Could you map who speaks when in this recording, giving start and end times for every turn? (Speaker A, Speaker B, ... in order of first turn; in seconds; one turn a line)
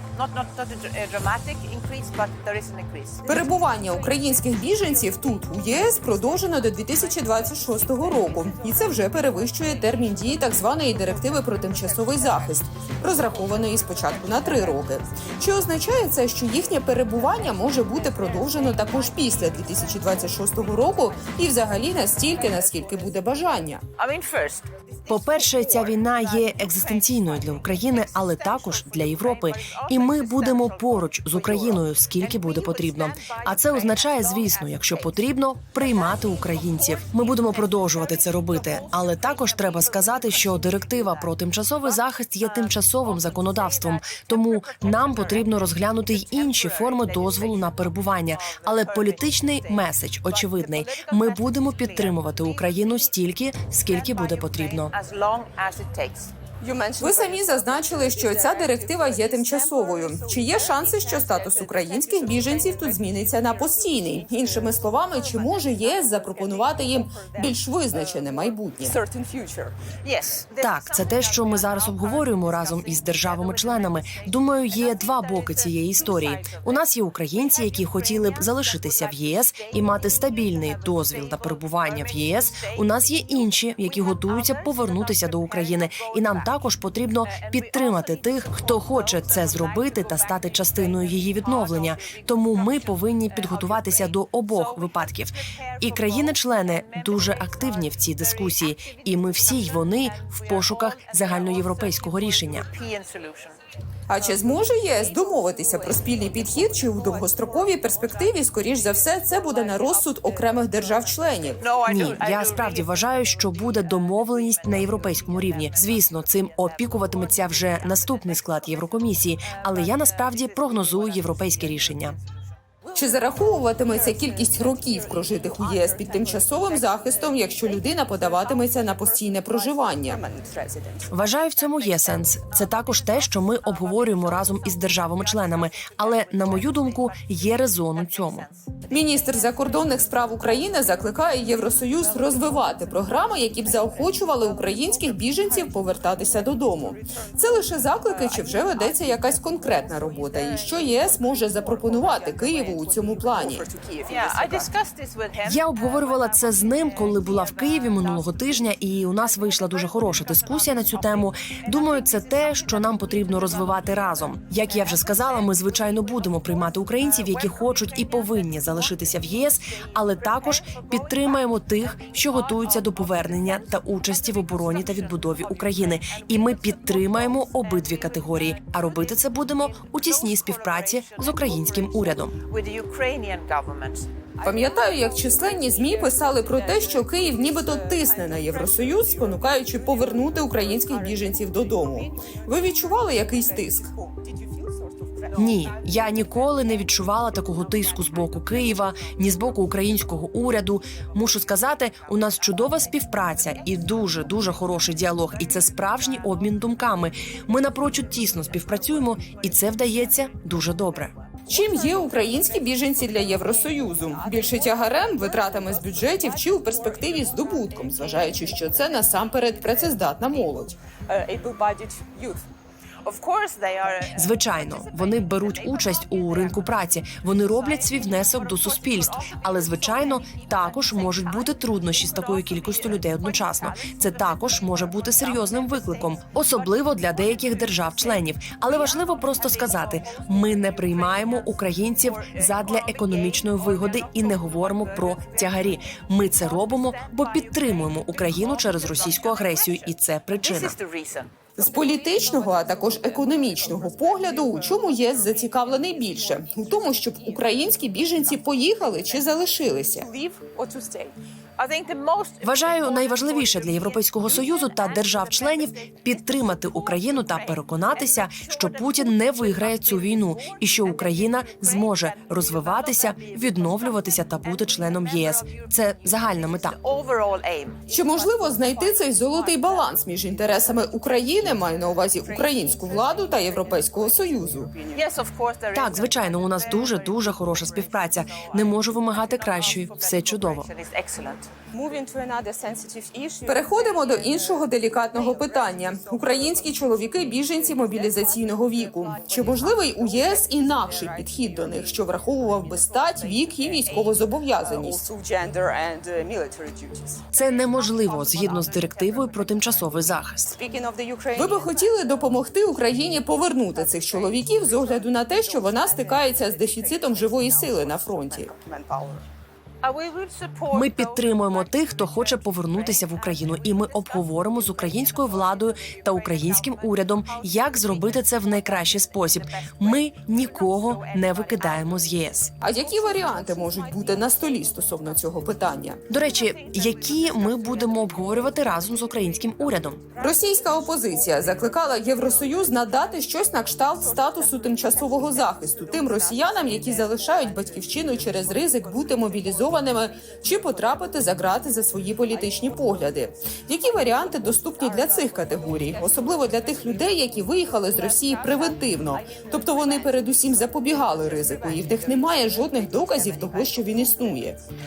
Speaker A: 0.1-3.3
Speaker B: 3.3-23.8
Speaker C: 3.3-5.5
Speaker C: 7.2-9.9
Speaker C: 11.0-15.5
Speaker C: 17.2-20.8
Speaker C: 21.9-23.1
Speaker A: 24.0-24.7
Speaker D: 25.1-54.9
Speaker A: 25.4-35.2
Speaker A: 35.7-53.1
Speaker A: 53.8-56.3
Speaker C: 56.6-69.7
Speaker B: 57.0-69.0
Speaker A: 70.0-103.5
Speaker D: 70.6-102.7
Speaker B: 104.1-111.7
Speaker A: 105.4-107.0
Speaker C: 109.4-109.8
Speaker A: 111.6-113.3
Speaker D: 111.8-122.2
Speaker A: 114.5-115.9
Speaker A: 116.9-118.2
Speaker A: 119.8-121.8
Speaker B: 122.9-130.2
Speaker C: 123.3-131.1
Speaker D: 131.1-138.5
Speaker A: 131.9-132.8
Speaker A: 133.7-138.5
Speaker B: 138.9-153.7
Speaker C: 148.4-148.7
Speaker C: 150.3-154.7
Speaker A: 154.1-158.6
Speaker D: 155.4-182.4
Speaker A: 159.3-163.1
Speaker A: 180.2-181.8
Speaker A: 182.4-184.1
Speaker C: 184.4-192.0
Speaker B: 184.4-193.9
Speaker C: 192.5-195.4
Speaker D: 195.3-211.1
Speaker B: 211.5-220.8
Speaker C: 212.8-218.6
Speaker C: 221.1-222.4
Speaker A: 223.0-226.7
Speaker D: 224.1-250.8
Speaker A: 227.6-251.3
Speaker B: 251.6-260.1
Speaker C: 259.9-261.1
Speaker A: 261.6-277.8
Speaker D: 262.4-276.8
Speaker B: 277.9-284.8
Speaker C: 281.6-285.0
Speaker A: 284.9-291.5
Speaker D: 285.7-290.7
Speaker C: 291.7-296.6
Speaker B: 293.4-305.1
Speaker C: 297.6-301.9
Speaker C: 302.5-307.2
Speaker D: 307.3-310.6
Speaker C: 310.6-311.7
Speaker B: 311.3-318.5
Speaker C: 313.9-319.2
Speaker A: 319.8-332.3
Speaker D: 320.7-332.5
Speaker B: 332.6-336.0
Speaker C: 333.1-334.4
Speaker A: 336.1-339.9
Speaker D: 336.1-340.0
Speaker B: 340.2-364.6
Speaker C: 340.3-342.6
Speaker C: 344.0-349.6
Speaker C: 354.8-357.0
Speaker C: 357.8-360.3
Speaker C: 361.1-363.8